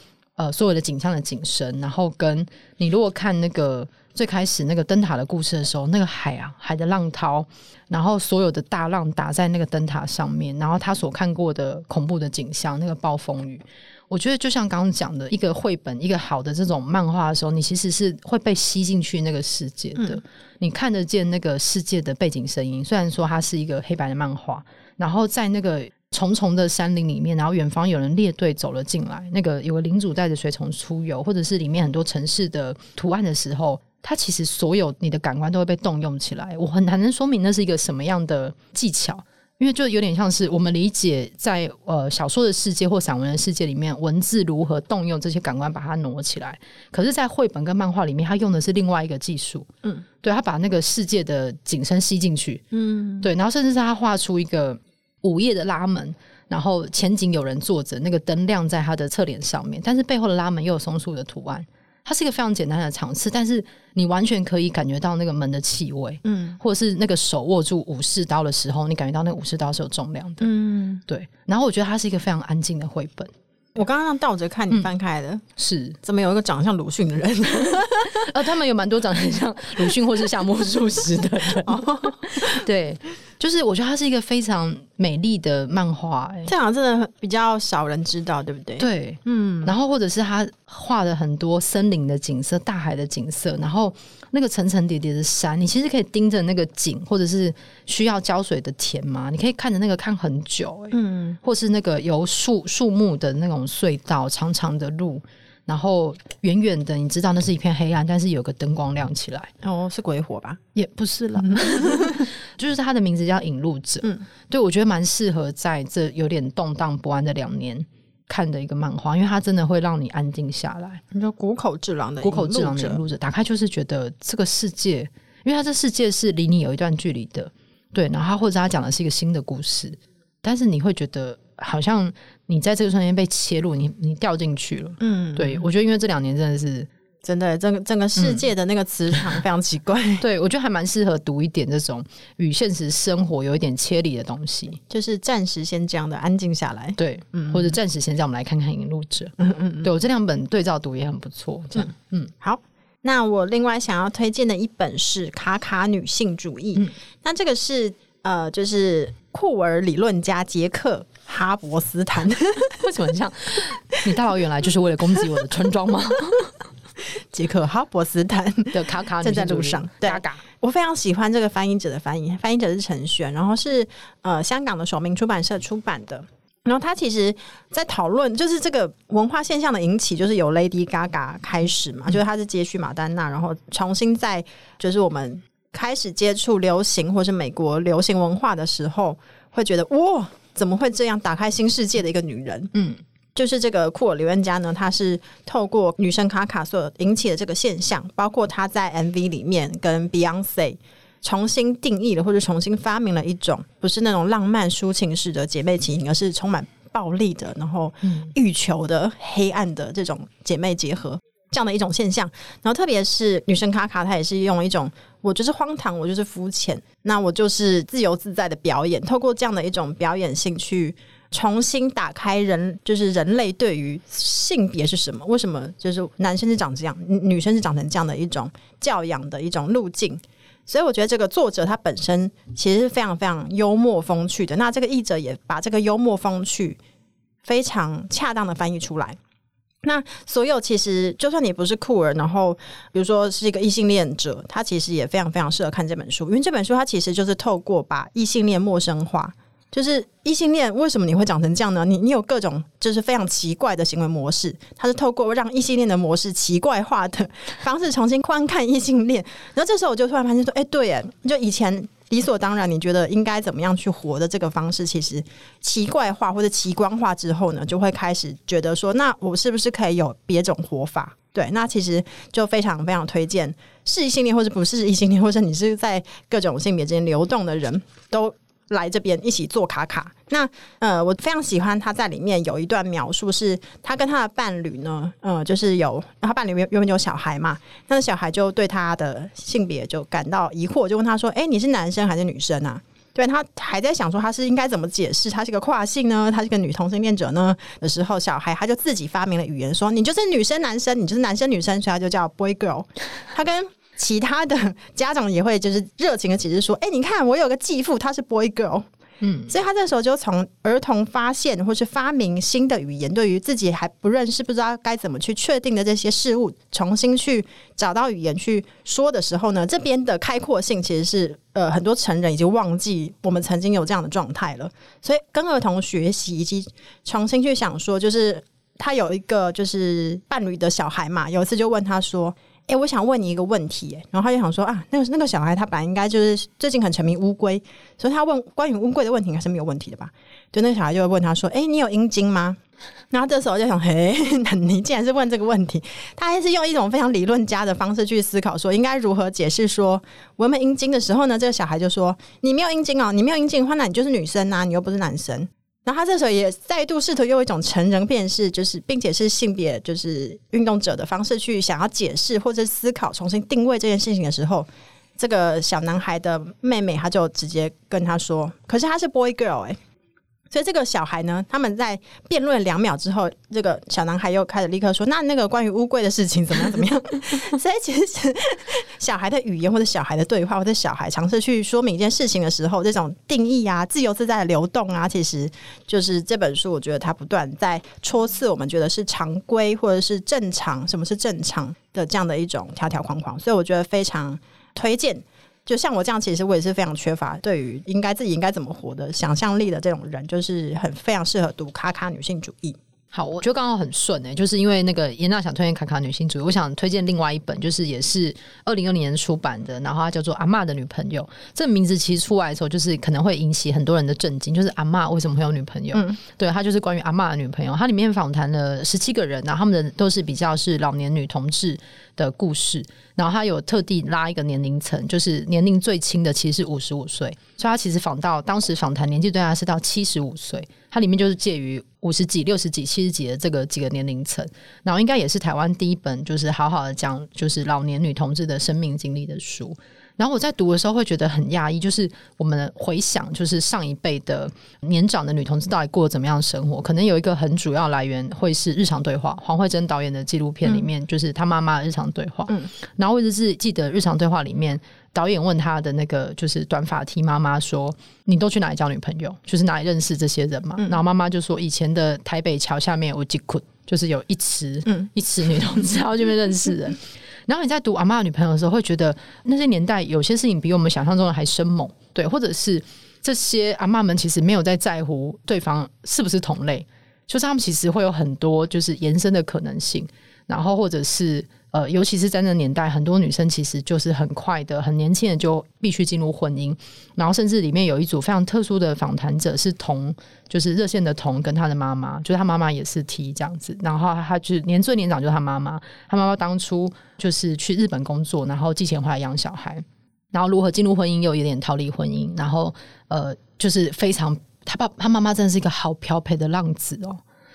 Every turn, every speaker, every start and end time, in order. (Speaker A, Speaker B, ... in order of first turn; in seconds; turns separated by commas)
Speaker A: 0.4-49.7, Speaker A: 50.2-52.6, Speaker B: 52.7-53.3, Speaker A: 53.2-70.5, Speaker B: 66.2-66.6, Speaker B: 70.4-71.0, Speaker A: 71.1-73.3, Speaker B: 73.7-75.4, Speaker A: 75.6-76.0, Speaker B: 76.0-78.3, Speaker A: 78.1-86.5, Speaker B: 81.6-82.6, Speaker B: 86.5-89.7, Speaker A: 88.8-109.5, Speaker B: 100.9-101.4, Speaker B: 109.6-110.6, Speaker A: 110.7-121.0, Speaker B: 111.5-112.2, Speaker B: 121.1-123.0, Speaker A: 122.2-136.9, Speaker B: 135.0-135.6, Speaker B: 137.2-140.2, Speaker A: 138.2-138.4, Speaker A: 140.2-144.8, Speaker B: 144.9-147.7, Speaker A: 147.0-152.3, Speaker B: 149.4-149.9, Speaker B: 152.4-162.8, Speaker A: 162.8-166.5, Speaker B: 167.3-192.7, Speaker A: 168.7-170.4, Speaker A: 192.7-193.0, Speaker B: 193.3-236.8, Speaker A: 208.0-208.3, Speaker B: 237.4-239.2, Speaker B: 239.8-308.9, Speaker A: 309.2-309.5, Speaker B: 309.5-342.6, Speaker B: 343.1-369.8, Speaker B: 370.5-402.8, Speaker A: 403.1-507.2, Speaker B: 415.9-416.2